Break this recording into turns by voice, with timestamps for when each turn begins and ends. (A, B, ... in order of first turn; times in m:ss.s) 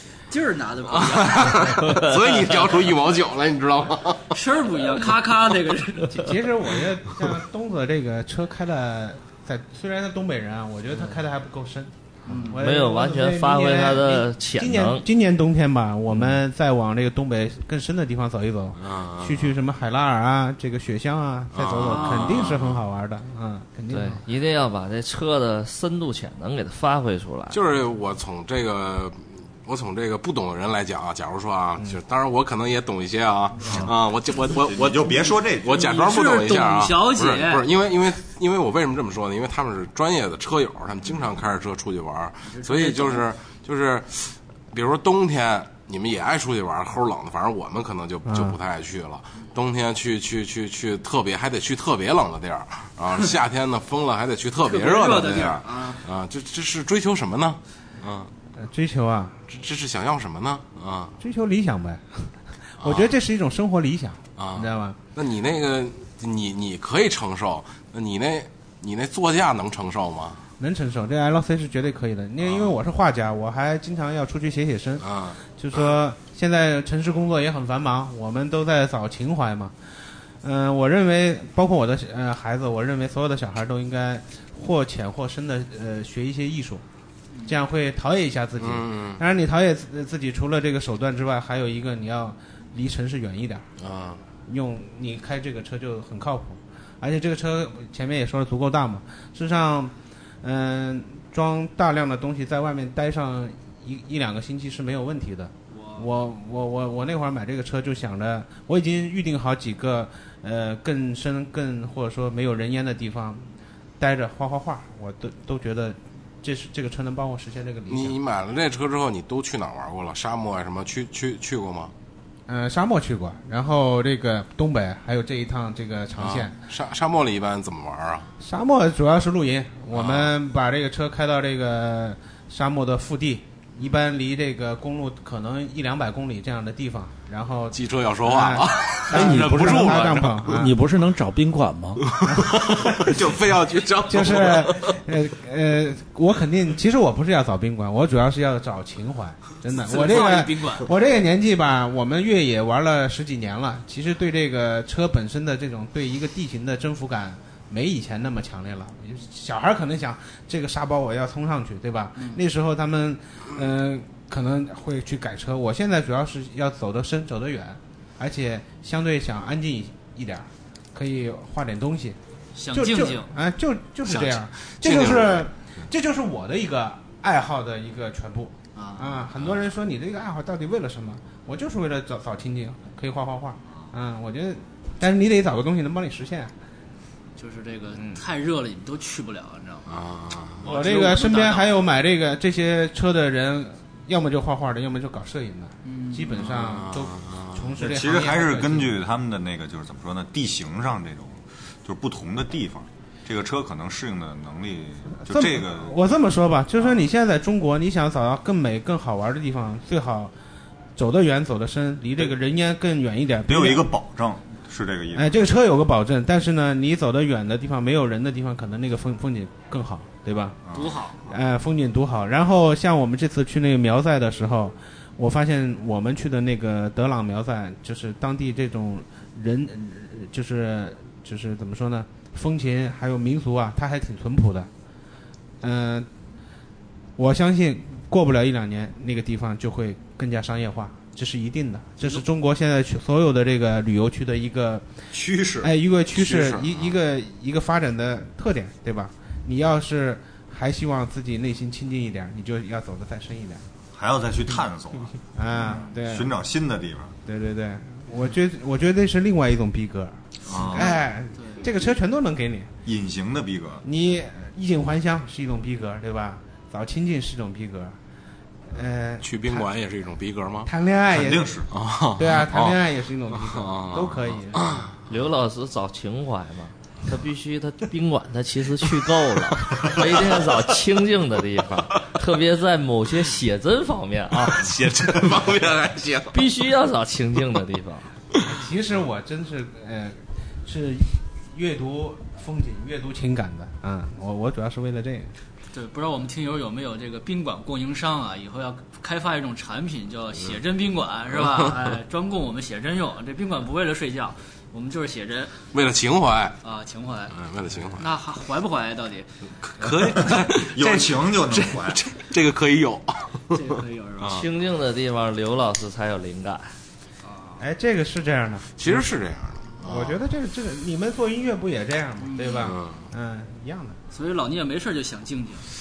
0:00.3-0:02.0 A
0:00.9-0:04.4 B
0:04.3-0:06.3 A
0:06.1-0:24.2 C
0:12.3-0:12.6 A
0:12.6-0:15.0 D
0:18.8-0:19.6 B
0:21.5-0:22.8 B
0:21.8-0:22.6 A
0:23.9-0:27.6 D
0:27.5-0:58.3 B
0:34.6-0:35.8 E
0:35.7-0:37.7 A
0:42.4-0:43.3 A
0:48.3-0:48.6 C
0:54.6-0:56.0 A
0:58.6-0:59.4 C
0:59.5-1:01.2 B
1:01.2-1:05.0 C
1:02.8-1:03.1 B
1:04.4-1:10.4 B
1:10.6-1:26.8 C
1:12.4-1:12.7 B
1:15.0-1:15.4 B
1:27.3-1:27.6 A
1:27.4-1:33.6 C
1:28.6-1:29.2 B
1:33.8-1:34.2 B
1:34.4-1:53.4 C
1:45.7-1:46.1 A
1:54.0-1:58.2 C
1:57.9-2:01.9 B
2:02.5-2:06.5 C
2:06.2-2:08.3 B
2:08.4-2:20.7 C
2:09.9-2:10.3 B
2:17.7-2:20.6 B
2:19.1-2:22.2 F
2:22.0-2:25.0 B
2:22.3-2:23.2 C
2:24.1-2:52.2 C
2:29.8-2:30.9 A
2:42.2-2:42.4 A
2:52.5-2:53.3 A
2:52.7-3:06.5 C
2:54.0-2:55.4 B
2:58.7-2:59.2 A
3:07.4-3:09.9 A
3:09.9-3:10.7 B
3:10.6-3:11.7 A
3:10.6-3:19.0 C
3:15.8-3:16.7 A
3:16.4-3:17.7 B
3:17.8-3:26.0 E
3:25.2-3:30.3 C
3:31.0-3:33.9 C
3:33.5-3:35.4 E
3:35.1-3:40.6 C
3:40.7-3:41.0 E
3:40.7-3:41.2 A
3:41.2-3:54.7 C
3:55.6-3:56.1 C
3:57.2-4:04.9 C
4:05.1-4:05.7 E
4:05.6-4:13.6 C
4:06.1-4:07.0 B
4:13.9-4:17.1 E
4:15.3-4:16.4 C
4:17.2-4:22.7 C
4:20.4-4:21.0 E
4:20.7-4:21.7 A
4:22.8-4:23.8 E
4:23.8-4:28.0 C
4:28.7-4:29.7 C
4:29.2-4:30.7 B
4:30.6-4:31.6 C
4:31.1-4:31.7 E
4:31.7-4:34.9 B
4:32.2-4:34.9 C
4:35.1-4:44.6 D
4:44.3-4:46.5 B
4:46.3-4:48.1 D
4:48.4-4:55.3 C
4:55.7-5:05.6 A
5:01.4-5:01.9 B
5:05.7-5:06.6 B
5:06.6-5:07.4 A
5:07.3-5:08.1 B
5:08.0-5:09.3 A
5:09.6-5:14.4 B
5:10.3-5:12.0 E
5:13.5-5:14.5 A
5:14.3-5:16.7 D
5:17.2-5:17.6 A
5:17.6-5:19.1 C
5:18.8-5:20.2 B
5:19.8-5:24.0 C
5:22.2-5:22.8 A
5:22.6-5:23.0 B
5:24.1-5:25.6 A